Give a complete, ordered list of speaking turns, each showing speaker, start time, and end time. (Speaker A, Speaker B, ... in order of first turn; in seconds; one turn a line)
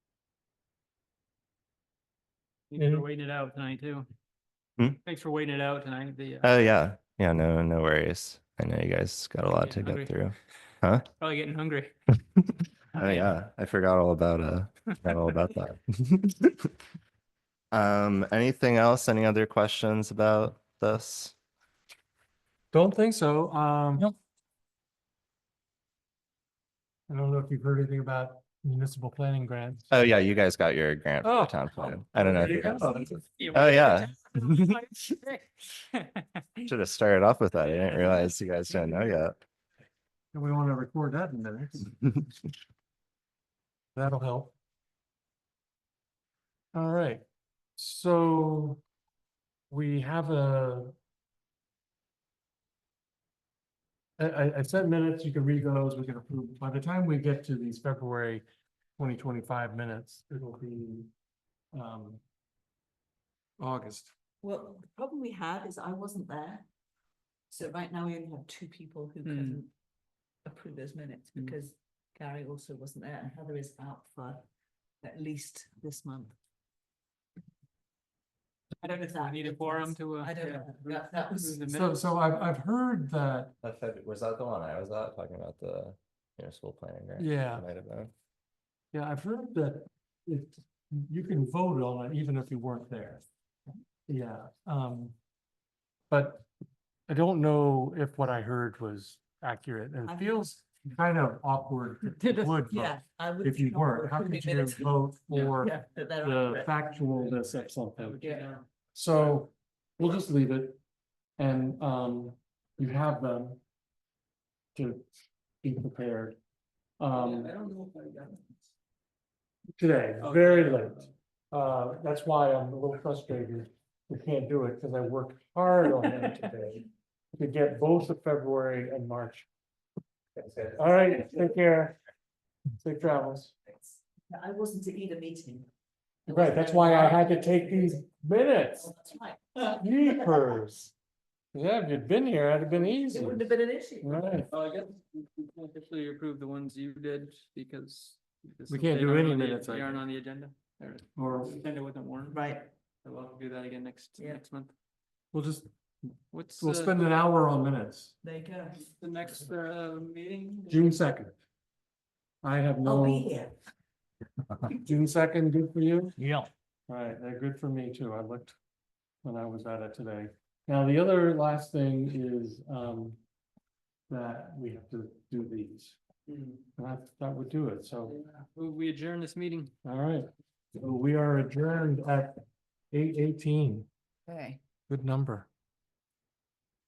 Speaker A: 2.7-4.1
Speaker B: 2.8-3.0
Speaker A: 5.0-6.5
Speaker C: 6.4-11.1
Speaker A: 9.5-10.2
Speaker A: 11.2-12.0
Speaker A: 12.9-13.3
Speaker C: 12.9-16.6
Speaker C: 17.7-21.4
Speaker B: 22.7-24.1
Speaker B: 27.1-30.0
Speaker C: 29.9-34.8
Speaker B: 31.2-33.2
Speaker A: 32.3-36.4
Speaker C: 36.7-39.4
Speaker B: 40.3-42.2
Speaker B: 44.0-44.5
Speaker B: 46.7-47.2
Speaker B: 47.8-48.8
Speaker B: 49.7-51.0
Speaker B: 54.2-58.4
Speaker B: 59.0-61.1
Speaker B: 61.7-62.2
Speaker B: 63.6-64.1
Speaker D: 64.4-66.7
Speaker D: 67.5-69.7
Speaker A: 69.2-69.6
Speaker D: 70.4-74.5
Speaker D: 75.0-76.3
Speaker A: 78.8-82.1
Speaker D: 78.9-81.6
Speaker B: 81.7-83.5
Speaker C: 83.6-88.1
Speaker B: 87.2-87.7
Speaker B: 88.9-93.2
Speaker B: 94.1-95.2
Speaker B: 96.1-96.5
Speaker B: 97.1-108.2
Speaker D: 100.1-100.4
Speaker A: 102.1-102.6
Speaker D: 102.7-106.9
Speaker A: 108.0-108.7
Speaker D: 108.2-108.5
Speaker B: 108.9-110.8
Speaker B: 111.4-113.6
Speaker B: 114.8-115.1
Speaker B: 115.6-116.4
Speaker B: 117.0-117.5
Speaker A: 117.1-118.7
Speaker B: 119.8-129.5
Speaker A: 120.2-121.1
Speaker C: 130.4-130.8
Speaker B: 130.8-132.0
Speaker B: 132.8-133.5
Speaker D: 133.7-135.7
Speaker D: 136.2-138.0
Speaker B: 136.3-138.9
Speaker D: 138.8-140.6
Speaker B: 139.8-140.9
Speaker B: 141.5-144.5
Speaker D: 143.1-144.2
Speaker A: 144.5-152.4
Speaker B: 148.7-150.0
Speaker B: 151.2-151.6
Speaker D: 152.2-152.7
Speaker A: 153.0-154.7
Speaker B: 155.3-155.7
Speaker A: 156.3-157.0
Speaker B: 156.6-158.2
Speaker D: 158.2-158.9
Speaker A: 158.8-160.9
Speaker B: 160.7-161.4
Speaker B: 162.4-163.3
Speaker D: 162.8-163.5
Speaker B: 164.7-166.2
Speaker B: 166.9-168.6
Speaker B: 169.2-173.2
Speaker B: 174.1-176.0
Speaker A: 176.3-176.7
Speaker B: 176.8-178.2
Speaker A: 178.0-179.7
Speaker B: 179.8-183.9
Speaker D: 184.3-184.6
Speaker B: 184.9-185.5